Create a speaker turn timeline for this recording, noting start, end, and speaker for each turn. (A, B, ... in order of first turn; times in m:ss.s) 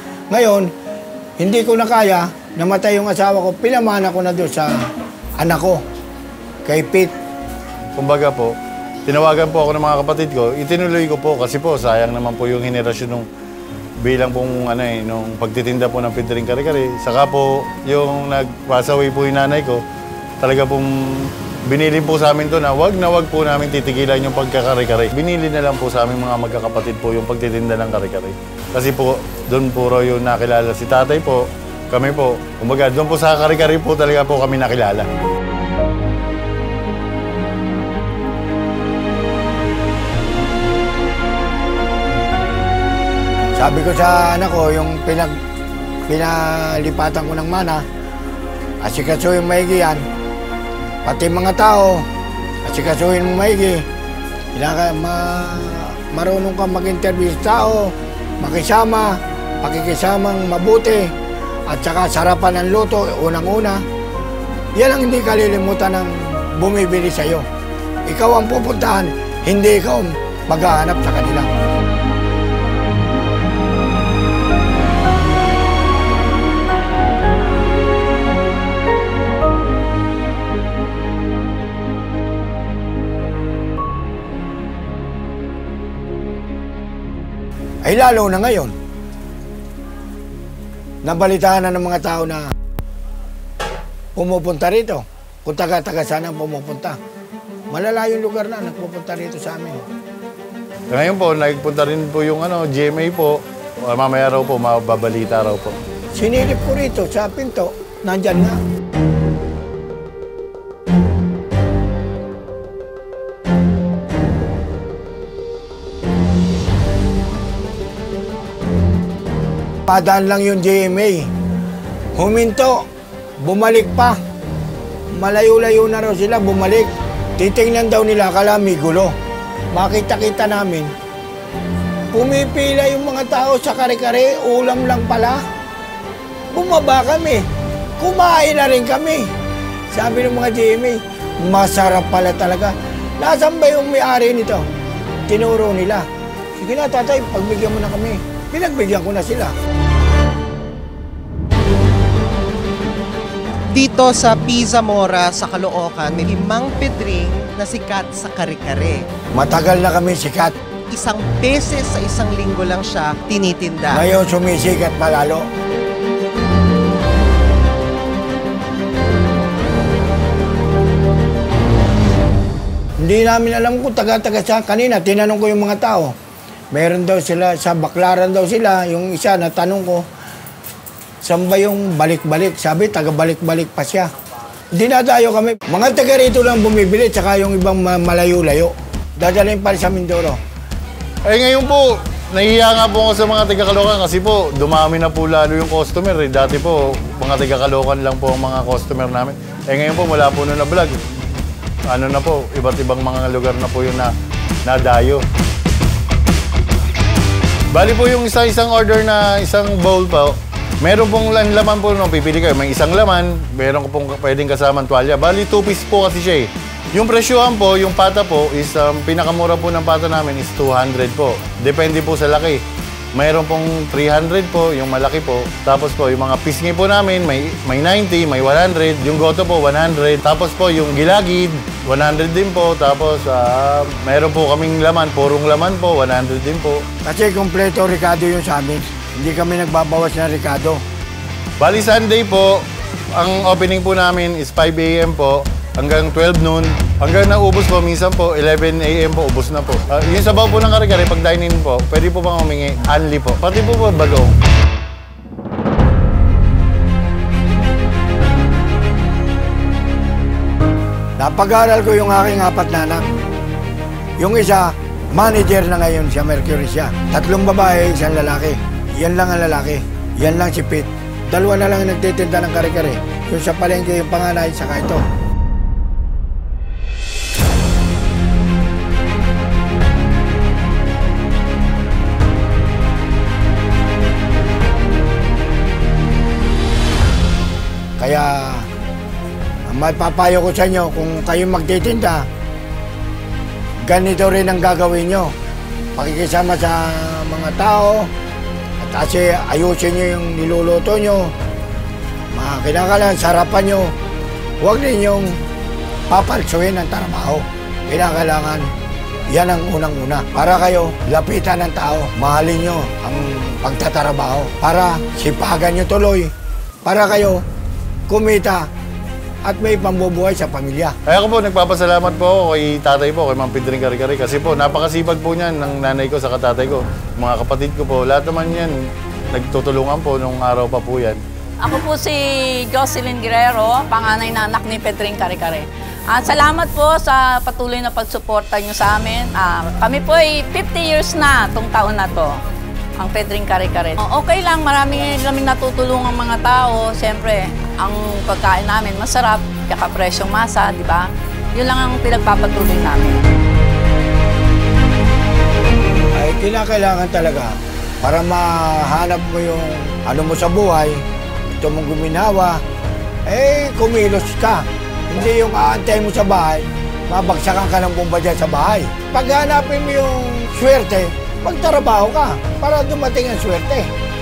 0:00.3-0:00.7 A
0:01.4-0:04.8 A
0:05.4-0:05.8 A
0:06.6-0:07.1 A
0:08.0-0:08.5 B
0:09.1-0:13.3 B
0:14.0-0:19.8 B
0:20.4-0:35.1 B
0:43.6-0:45.4 A
0:46.1-0:47.8 A
0:48.8-0:50.0 A
0:51.1-0:52.1 A
0:52.6-0:53.8 A
0:54.6-1:01.1 A
1:01.7-1:03.8 A
1:04.8-1:07.4 A
1:08.1-1:11.5 A
1:27.8-1:28.8 A
1:31.0-1:32.5 A
1:34.2-1:37.0 A
1:37.7-1:39.8 A
1:40.9-1:45.8 B
1:46.2-1:48.6 A
1:59.9-2:01.3 A
2:02.2-2:02.8 A
2:03.4-2:04.2 A
2:05.1-2:09.1 A
2:09.7-2:10.9 A
2:12.1-2:15.4 A
2:16.5-2:17.4 A
2:18.0-2:19.3 A
2:19.9-2:24.6 A
2:25.3-2:29.5 A
2:33.7-2:39.1 C
2:39.3-2:40.6 A
2:40.9-2:44.1 C
2:43.9-2:45.5 A
2:53.0-2:56.1 A
2:56.7-3:00.0 A
3:01.2-3:04.1 A
3:04.7-3:10.4 A
3:11.3-3:21.0 B
3:21.9-3:24.1 B
3:24.6-3:25.2 B
3:27.7-3:42.6 B
3:43.2-3:56.8 B
3:57.0-4:00.8 A
4:01.6-4:14.4 B
4:21.2-4:23.1 A
4:24.2-4:35.0 A
4:48.0-4:48.7 A
4:49.7-4:52.3 A
4:53.8-4:55.3 A
4:56.0-4:58.1 A
4:58.8-5:01.3 A
5:02.3-5:03.9 A
5:04.6-5:05.4 A
5:06.1-5:08.7 A
5:09.3-5:16.3 A
5:16.8-5:17.4 A
5:18.1-5:18.7 A
5:19.4-5:21.0 A
5:21.1-5:28.7 B
5:29.3-5:31.2 B
5:31.6-5:42.4 D
5:43.0-5:53.2 D
5:56.2-6:02.6 A
6:03.3-6:13.9 A